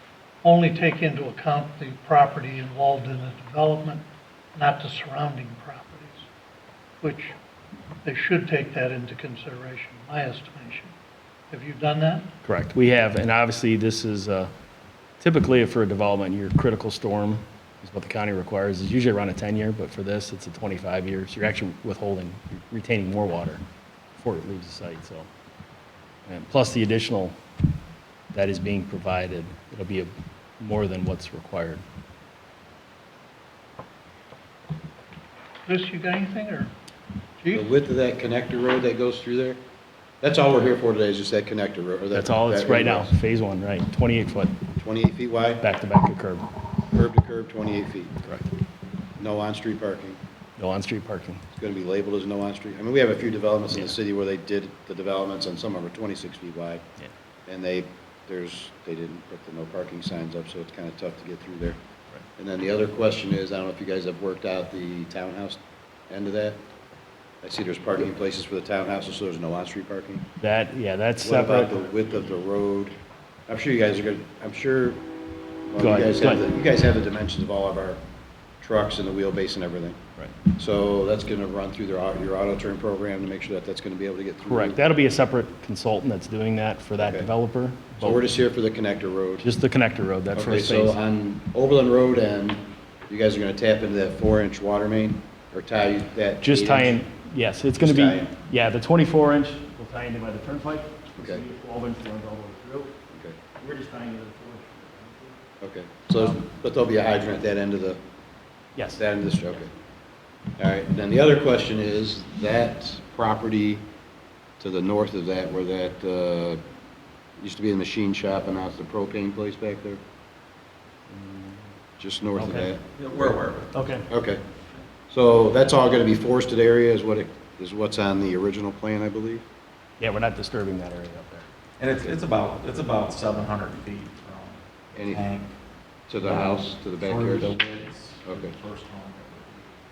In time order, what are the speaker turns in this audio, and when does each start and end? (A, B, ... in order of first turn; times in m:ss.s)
0:00.4-0:06.3 A
0:07.0-0:07.3 A
0:08.0-0:10.9 A
0:11.5-0:12.3 A
0:12.4-0:14.5 B
0:15.2-0:23.6 B
0:24.2-0:25.3 B
0:26.3-0:27.4 B
0:28.3-0:31.8 B
0:35.7-0:36.7 A
0:37.5-0:39.6 C
0:40.2-0:43.1 C
0:42.1-0:44.6 B
0:44.8-0:45.6 C
0:45.6-0:46.5 B
0:46.9-0:48.2 C
0:48.2-0:48.5 B
0:49.2-0:50.2 C
0:50.6-0:51.4 B
0:51.5-0:56.8 C
0:57.5-1:01.8 C
1:02.4-1:06.6 C
1:07.4-1:10.3 C
1:10.4-1:11.8 B
1:11.2-1:13.0 C
1:13.5-1:15.0 C
1:15.7-1:18.0 C
1:15.8-1:16.4 B
1:18.6-1:20.0 C
1:20.5-1:24.8 C
1:24.5-1:28.2 B
1:27.0-1:27.3 C
1:28.0-1:29.5 C
1:29.4-1:31.0 B
1:30.3-1:37.0 C
1:36.4-1:42.9 B
1:37.8-1:38.3 C
1:43.1-1:43.4 C
1:43.6-1:45.4 B
1:45.6-1:48.0 C
1:48.8-1:49.0 B
1:49.0-1:49.7 C
1:50.6-1:53.8 C
1:54.6-1:56.6 C
1:57.4-2:00.0 C
2:01.1-2:01.6 B
2:02.0-2:03.4 C
2:02.4-2:02.7 B
2:03.0-2:03.7 D
2:03.7-2:04.1 B
2:04.1-2:04.4 C
2:05.1-2:09.4 C
2:10.0-2:11.5 B
2:11.8-2:15.5 D
2:15.0-2:15.3 C
2:16.1-2:17.6 C
2:16.2-2:19.8 D
2:18.2-2:18.5 C